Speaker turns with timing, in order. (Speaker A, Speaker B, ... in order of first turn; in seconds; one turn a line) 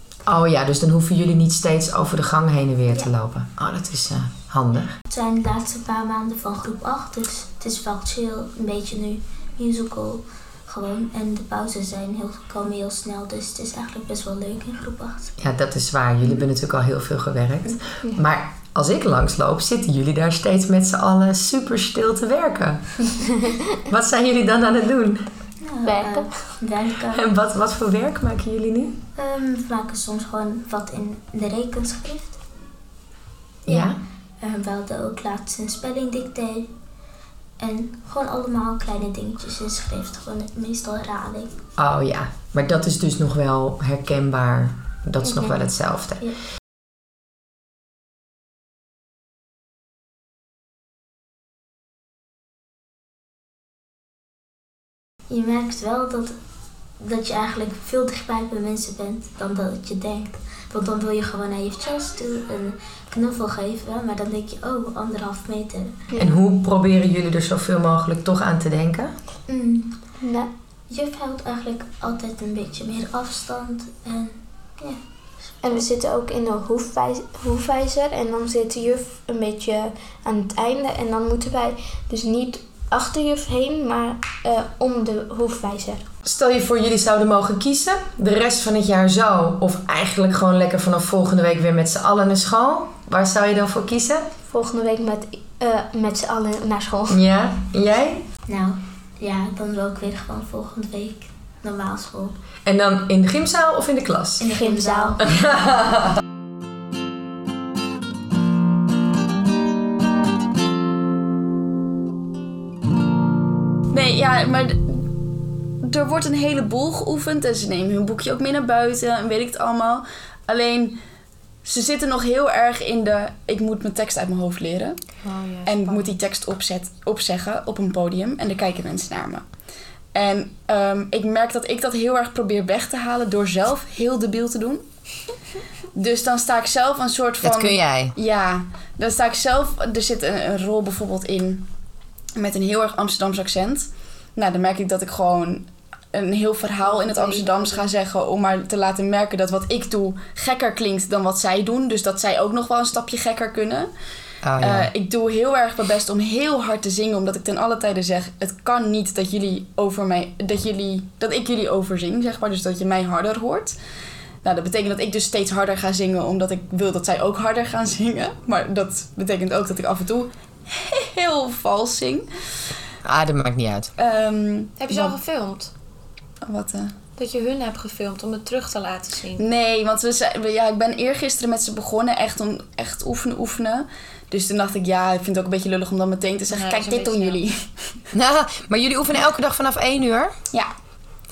Speaker A: 0.2-5.0
Speaker B: 5.1-15.4
Speaker A: 15.4-23.1
Speaker A: 23.9-25.3
Speaker B: 25.6-27.3
Speaker C: 25.9-26.5
Speaker A: 27.1-29.0
Speaker B: 29.1-32.4
Speaker B: 33.6-36.7
Speaker A: 33.7-34.0
Speaker B: 37.6-41.5
Speaker A: 41.8-46.2
Speaker B: 55.3-56.4
Speaker B: 57.0-65.9
Speaker C: 66.1-66.4
Speaker A: 66.2-69.1
Speaker B: 69.5-70.0
Speaker C: 70.2-70.5
Speaker B: 70.9-75.8
Speaker C: 75.6-86.0
Speaker A: 86.2-94.3
Speaker C: 94.5-97.2
Speaker A: 97.1-98.3
Speaker B: 98.5-102.4
Speaker A: 102.6-104.5
Speaker B: 104.4-105.4
Speaker C: 104.5-105.2
Speaker A: 105.2-106.2
Speaker D: 113.9-115.1
Speaker D: 115.8-121.0
Speaker D: 121.6-125.0
Speaker E: 125.2-126.1
Speaker D: 125.6-129.4
Speaker D: 130.1-134.8
Speaker D: 135.9-141.7
Speaker A: 137.4-138.1
Speaker D: 142.4-153.9
Speaker E: 146.8-147.9
Speaker A: 154.4-154.9
Speaker D: 154.6-163.8
Speaker D: 164.4-172.3
Speaker A: 173.0-173.9
Speaker D: 174.0-175.1
Speaker E: 174.8-175.7
Speaker D: 176.4-176.9
Speaker E: 177.2-179.4
Speaker D: 179.4-187.6
Speaker E: 186.5-187.4
Speaker A: 188.1-190.3